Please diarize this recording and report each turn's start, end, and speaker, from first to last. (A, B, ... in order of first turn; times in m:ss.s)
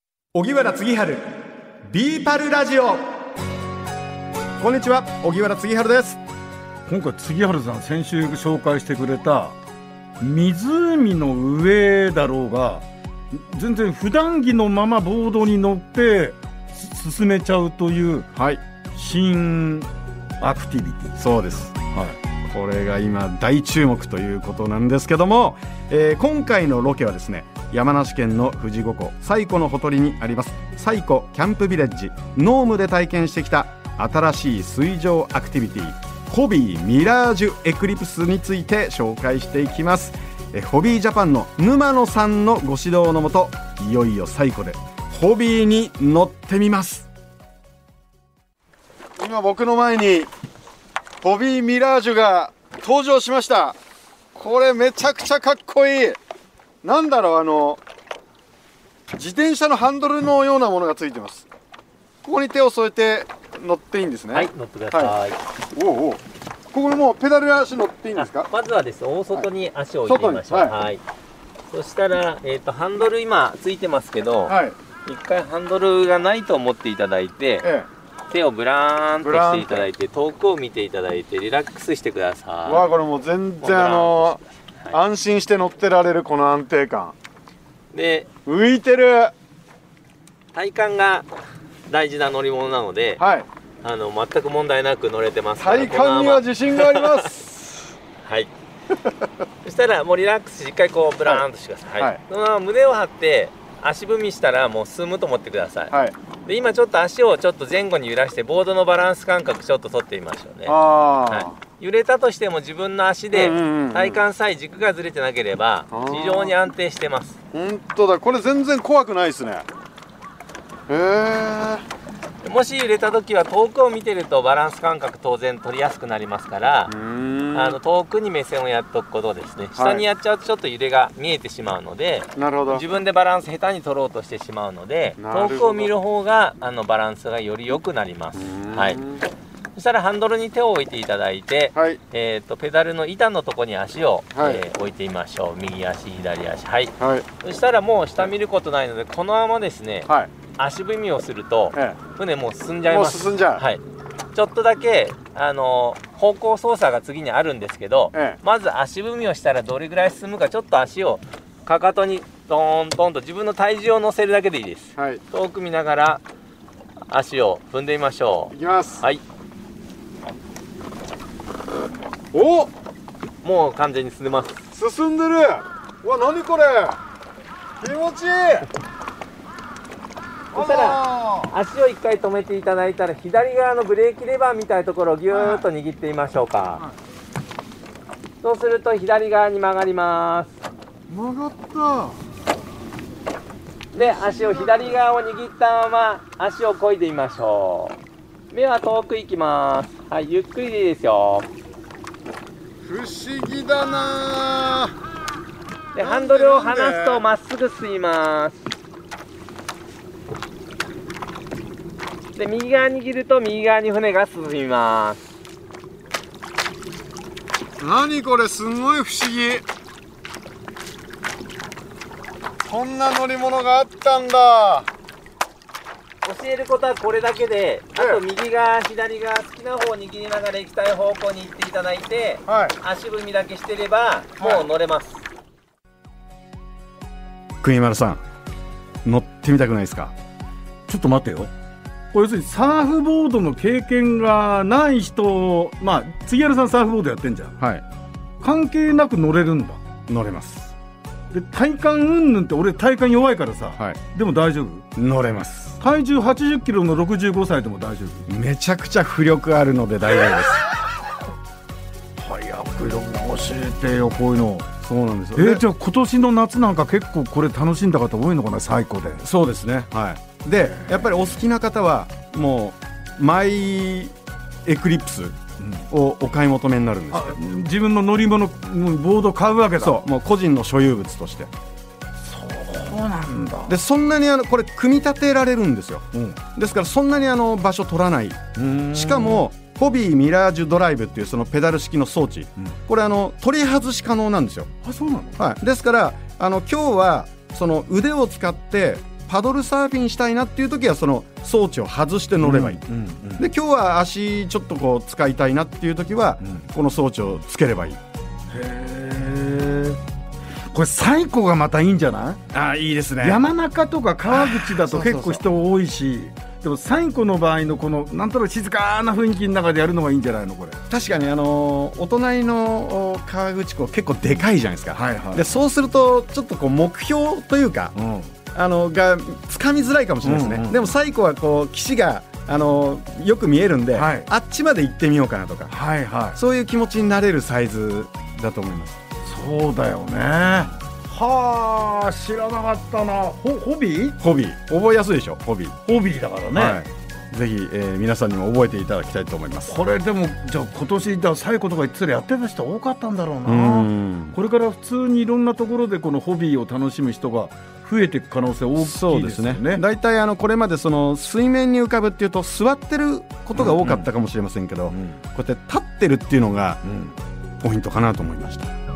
0:00.3-0:01.2 A
0:01.8-0:03.0 A
0:04.6-0:06.2 A
0:06.8-0:09.5 B
0:10.2-0:18.3 B
0:18.4-0:18.6 A
0:18.9-0:19.9 B
0:20.4-0:21.2 B
0:21.2-0:21.8 A
0:22.4-0:47.1 A
0:49.2-0:50.3 C
0:51.2-0:53.8 C
0:54.3-0:56.2 C
0:56.8-0:57.8 C
0:59.1-1:01.5 C
1:02.2-1:05.1 C
1:04.3-1:05.4 D
1:05.7-1:06.2 C
1:06.7-1:08.5 C
1:08.2-1:11.0 D
1:10.0-1:10.7 C
1:11.7-1:17.6 D
1:14.5-1:14.7 C
1:17.6-1:17.9 C
1:18.3-1:22.8 D
1:19.2-1:19.9 C
1:22.6-1:24.4 C
1:23.6-1:25.0 D
1:24.9-1:27.2 C
1:27.9-1:28.3 D
1:28.4-1:29.3 C
1:30.5-1:31.3 D
1:31.9-1:33.2 D
1:33.2-1:33.5 C
1:33.8-1:37.3 D
1:35.6-1:37.9 C
1:38.2-1:38.5 D
1:39.6-1:45.9 D
1:46.4-1:50.8 D
1:50.6-1:51.5 C
1:51.3-1:57.4 D
1:53.3-1:54.2 C
1:55.9-1:56.5 C
1:57.5-1:59.6 C
2:00.9-2:01.8 C
2:02.4-2:06.9 D
2:06.9-2:07.8 C
2:07.5-2:19.0 D
2:09.8-2:10.0 C
2:12.4-2:12.8 C
2:15.2-2:15.9 C
2:18.3-2:19.2 C
2:19.7-2:33.8 D
2:24.3-2:24.6 C
2:27.0-2:27.2 C
2:31.7-2:32.0 C
2:32.8-2:33.6 C
2:34.3-2:46.2 D
2:38.1-2:38.4 C
2:45.0-2:45.2 C
2:47.1-2:49.2 D
2:48.5-2:49.0 C
2:52.3-2:52.7 C
2:53.4-2:54.6 D
2:54.7-2:57.0 C
2:57.8-2:58.7 C
3:00.5-3:06.8 D
3:00.5-3:01.5 C
3:05.3-3:05.7 C
3:08.4-3:10.5 D
3:11.1-3:12.2 C
3:13.9-3:18.0 D
3:14.0-3:15.0 C
3:18.5-3:21.5 D
3:22.8-3:24.9 C
3:25.9-3:28.6 D
3:26.0-3:27.2 C
3:32.4-3:35.3 D
3:37.8-3:39.6 C
3:42.6-3:44.9 C
3:46.2-3:55.2 D
3:48.0-3:48.2 C
3:52.5-3:52.8 C
3:54.4-3:54.6 C
3:57.6-3:58.2 A
3:59.0-4:00.1 A
4:00.9-4:01.5 B
4:02.1-4:07.6 B
4:08.4-4:09.8 B
4:10.1-4:10.7 A
4:11.3-4:14.8 B
4:15.0-4:15.8 A
4:15.8-4:18.2 B
4:18.3-4:20.6 A
4:22.2-4:24.7 B
4:24.8-4:25.6 A
4:25.4-4:29.2 B
4:29.2-4:35.4 A
4:30.6-4:31.4 B
4:35.9-4:37.4 A
4:37.1-4:40.0 B
4:39.8-4:41.5 A
4:42.2-4:43.8 B
4:43.7-4:48.4 A
4:48.6-4:49.4 B
4:48.9-4:54.7 A
4:54.8-4:55.4 B
4:55.4-5:02.8 A
5:02.4-5:03.4 B
5:03.4-5:08.0 A
5:08.5-5:10.0 B
5:10.7-5:12.4 B
5:12.5-5:13.4 A
5:13.2-5:20.8 B
5:14.3-5:15.4 A
5:20.9-5:27.9 A
5:24.9-5:25.4 B
5:28.0-5:28.3 B
5:28.5-5:35.7 A
5:30.2-5:30.9 B
5:33.9-5:34.3 B
5:35.7-5:36.4 B
5:36.3-5:39.0 A
5:39.2-5:44.2 B
5:44.2-5:45.8 A
5:45.8-5:46.8 B
5:46.5-5:49.7 A
5:49.7-5:59.8 B
5:53.4-5:54.4 A
5:58.8-6:06.8 A
6:03.5-6:04.1 B
6:04.9-6:05.2 B
6:06.8-6:07.2 B
6:07.6-6:08.7 A